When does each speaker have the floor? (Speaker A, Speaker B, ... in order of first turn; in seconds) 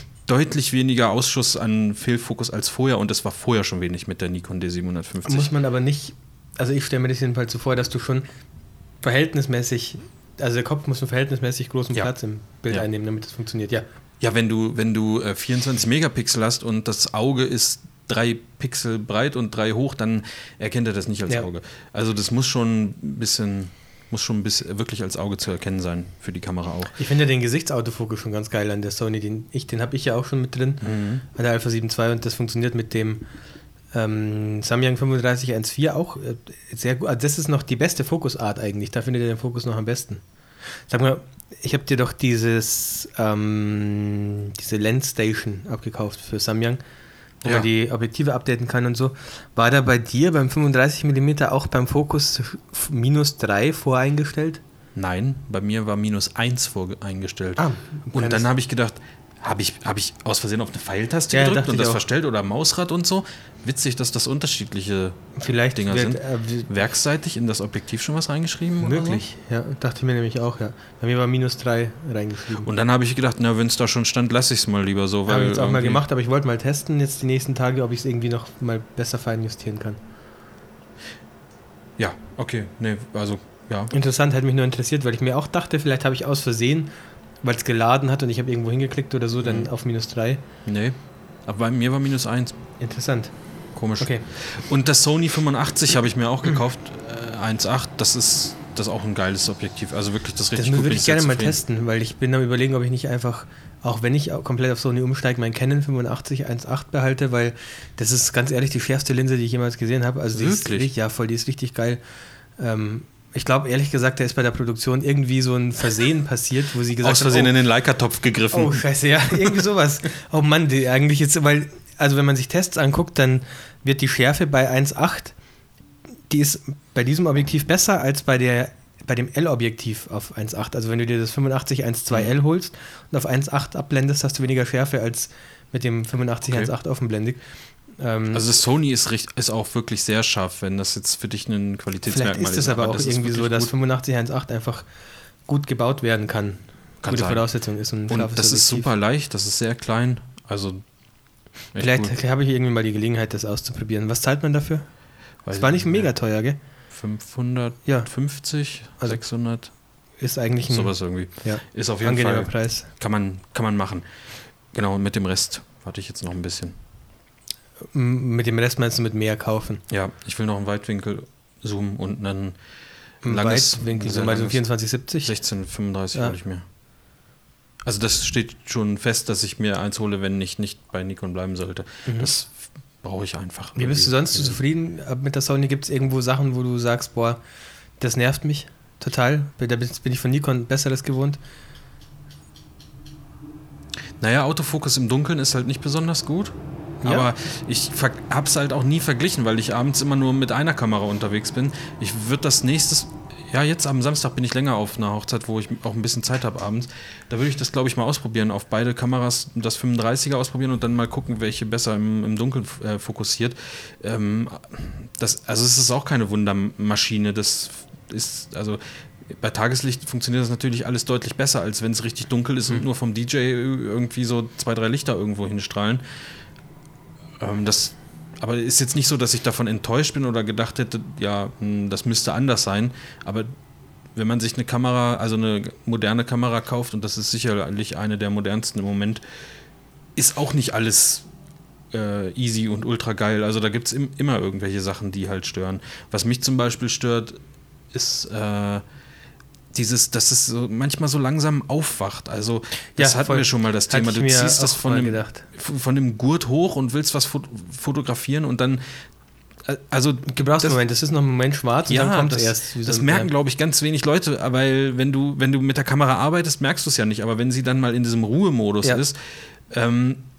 Speaker A: 0.2-5.5, 14.2-27.0, 30.8-31.2, 55.0-65.2, 65.7-69.2, 72.6-76.0, 82.0-83.9, 89.4-89.7, 90.7-92.6, 93.7-101.6, 110.3-110.9, 117.0-118.8, 136.4-136.7, 138.3-143.7, 147.0-147.4, 148.1-150.8, 151.7-152.1, 155.4-156.1, 156.9-159.7, 160.7-164.1, 164.7-166.8, 169.9-172.6, 173.2-174.6, 175.2-176.6, 177.8-184.6, 194.2-226.0, 227.4-233.5, 234.2-239.2, 240.2-241.3, 241.9-247.4, 247.9-248.8, 249.7-258.8, 259.6-260.8, 261.9-269.2, 269.7-270.2
Speaker B: 5.2-8.2, 9.0-13.8, 27.0-33.2, 33.9-40.2, 40.9-46.8, 47.4-54.6, 57.6-58.5, 61.3-62.0, 65.4-66.8, 68.8-72.7, 75.3-80.0, 83.9-86.9, 87.4-90.4, 92.8-93.3, 94.0-94.2, 100.5-112.0, 112.6-117.5, 118.5-125.3, 126.3-137.4, 138.0-138.4, 142.1-144.8, 145.5-148.9, 151.8-154.9, 155.5-156.6, 157.8-158.1, 160.2-162.9, 167.9-169.8, 173.2-175.4, 182.1-182.3, 183.8-187.4, 188.0-191.4, 197.0-197.3, 252.9-255.4, 260.2-263.3